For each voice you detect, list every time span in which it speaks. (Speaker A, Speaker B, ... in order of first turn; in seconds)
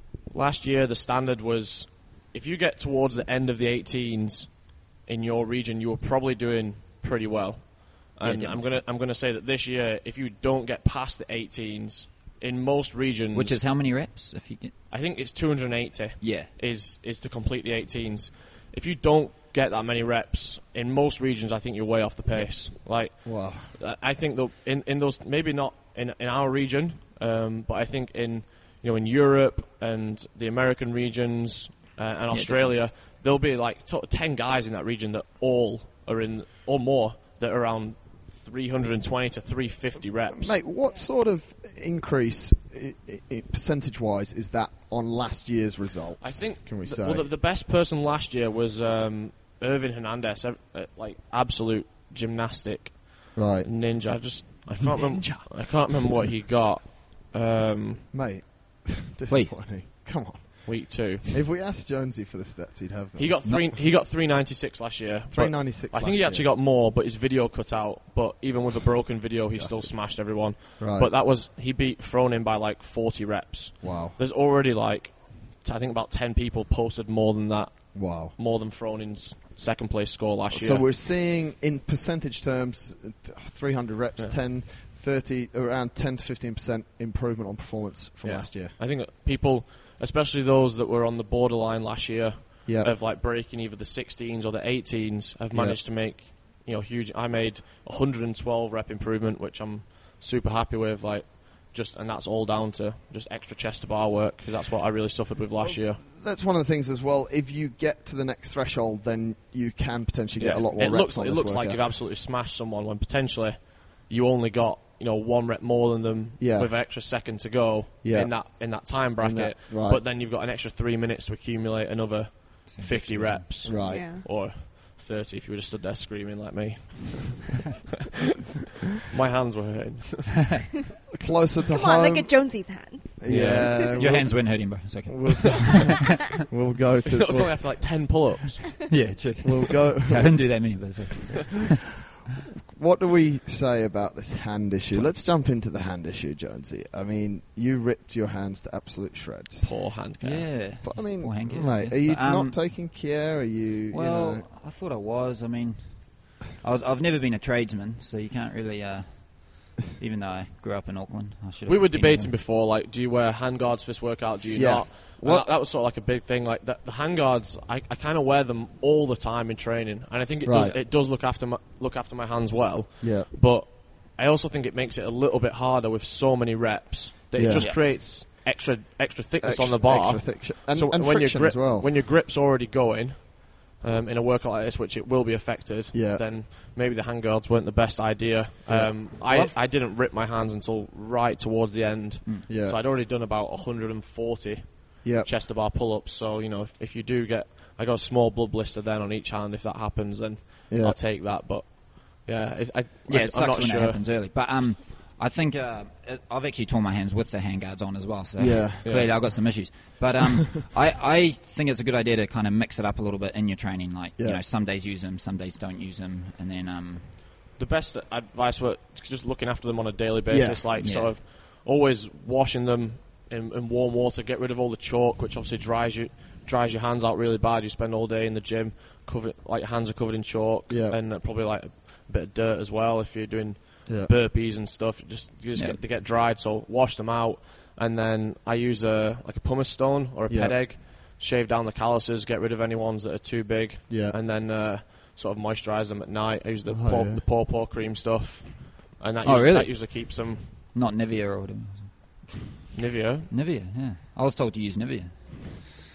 Speaker A: 0.3-13.6, 14.9-40.6, 46.2-58.1, 60.6-61.4, 63.1-80.9, 88.2-106.0, 110.3-127.8, 129.0-130.6, 133.3-133.9, 137.1-138.8, 149.6-150.6, 161.6-204.0, 208.8-209.2, 217.6-250.7, 252.7-253.3
Speaker B: 8.2-8.7, 13.3-14.7, 16.2-16.5, 32.3-32.7, 59.3-59.7, 122.7-123.5, 133.3-135.9, 138.9-141.9, 150.2-152.7, 153.9-162.3, 177.5-177.8, 189.3-189.6, 203.1-217.2, 220.8-221.1, 235.5-235.8, 249.2-249.9, 250.7-252.7, 253.3-255.7
Speaker C: 23.2-23.8, 40.3-47.3, 53.3-53.7, 54.8-55.6, 58.1-63.4, 65.3-66.5, 69.5-70.1, 70.8-71.1, 73.8-74.2, 77.9-78.3, 80.5-88.8, 92.7-92.9, 95.5-95.8, 105.6-111.8, 116.4-116.8, 118.0-118.5, 119.2-120.0, 123.6-124.0, 131.1-132.3, 133.2-135.7, 136.4-137.6, 139.4-140.5, 142.7-149.7, 150.8-154.4, 164.5-165.5, 170.4-170.8, 173.0-173.3, 177.3-177.7, 179.4-181.9, 185.9-186.2, 188.7-189.2, 192.5-192.8, 195.0-195.3, 200.7-201.0, 208.4-208.8, 220.3-220.7, 230.7-231.0, 233.9-234.1, 240.3-240.6, 243.9-244.2, 246.7-247.2
Speaker D: 123.8-124.2, 131.7-134.0, 135.5-136.2